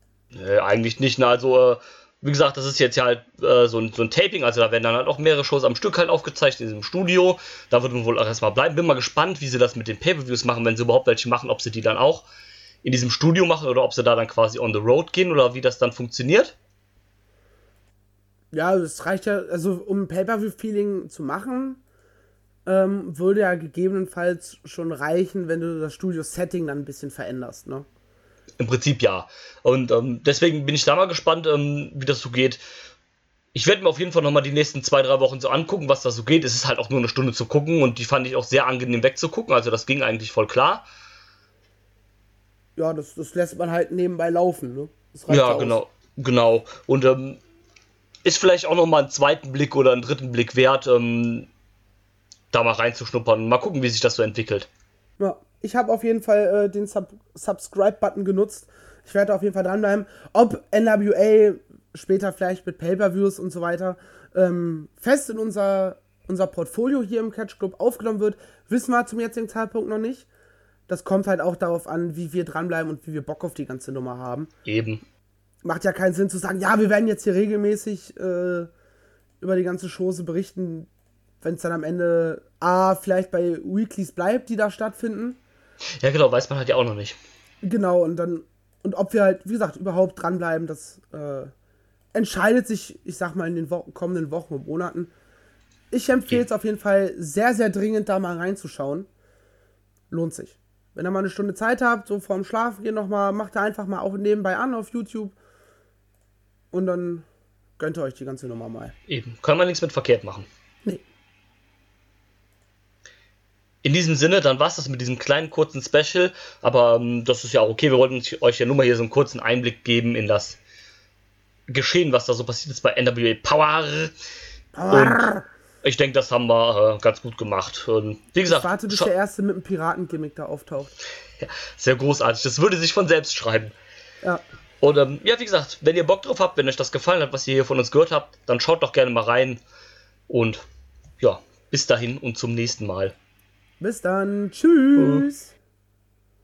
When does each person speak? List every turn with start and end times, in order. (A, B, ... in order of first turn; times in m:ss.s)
0:00.3-0:12.3 A
0:12.8-0:16.6 A
0:18.5-0:21.8 B
0:22.6-0:27.9 B
0:28.6-0:32.6 A
0:33.5-0:40.8 A
0:42.8-0:45.8 B
0:45.3-0:47.4 A
0:48.2-0:51.5 A
0:52.5-0:54.7 A
0:55.2-1:10.3 B
1:10.9-1:14.5 B
1:14.6-1:15.0 A
1:15.6-1:18.7 B
1:19.4-1:20.9 B
1:21.4-1:25.4 B
1:26.0-1:27.2 A
1:27.6-1:31.5 B
1:32.1-1:35.1 B
1:35.9-1:39.1 B
1:40.1-1:45.3 B
1:46.7-1:47.2 B
1:47.8-1:48.9 B
1:49.1-1:50.5 A
1:53.8-2:00.6 A
2:01.7-2:04.1 A
2:04.7-2:05.4 B
2:04.9-2:05.3 A
2:05.8-2:09.1 A
2:08.4-2:10.9 B
2:11.4-2:13.7 A
2:14.8-2:19.6 A
2:20.3-2:20.6 A
2:21.2-2:23.1 A
2:23.8-2:25.5 B
2:25.0-2:25.2 A